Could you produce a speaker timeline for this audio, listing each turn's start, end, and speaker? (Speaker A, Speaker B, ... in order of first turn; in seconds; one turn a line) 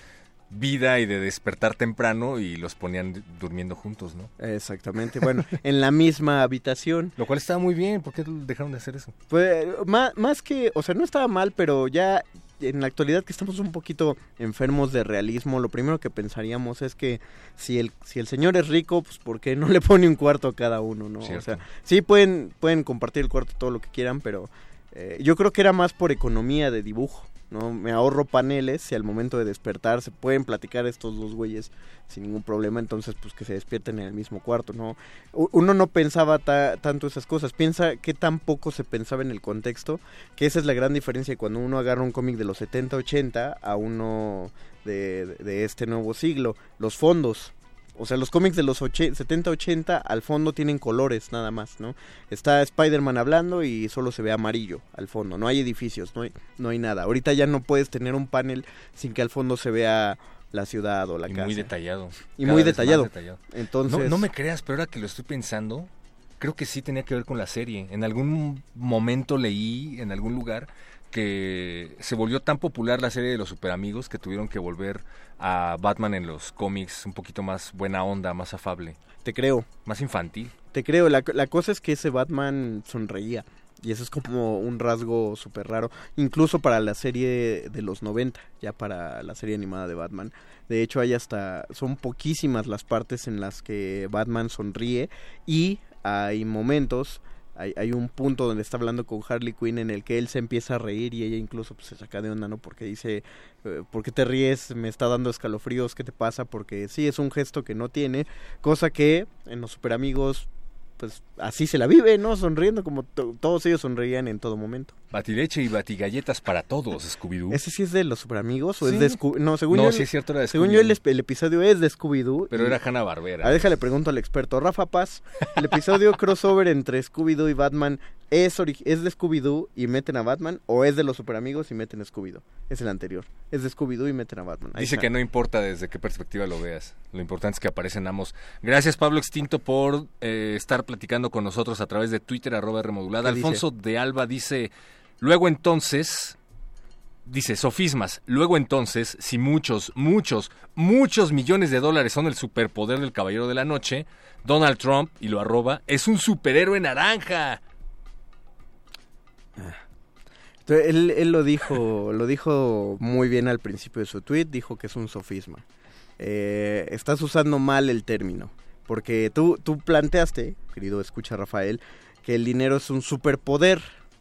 Speaker A: 0.5-4.3
Speaker B: 4.4-7.1
Speaker A: 7.2-9.1
Speaker B: 9.3-61.7
Speaker A: 21.2-21.6
Speaker A: 61.3-79.0
Speaker B: 62.4-64.3
Speaker B: 79.2-79.7
Speaker A: 79.8-80.5
Speaker B: 80.7-115.0
Speaker A: 115.1-117.6
Speaker B: 117.5-122.8
Speaker A: 118.8-119.2
Speaker A: 119.7-121.0
Speaker A: 122.5-123.7
Speaker B: 123.4-135.1
Speaker A: 134.8-146.4
Speaker B: 143.2-143.6
Speaker A: 147.3-157.6
Speaker B: 160.7-165.6
Speaker B: 166.2-173.9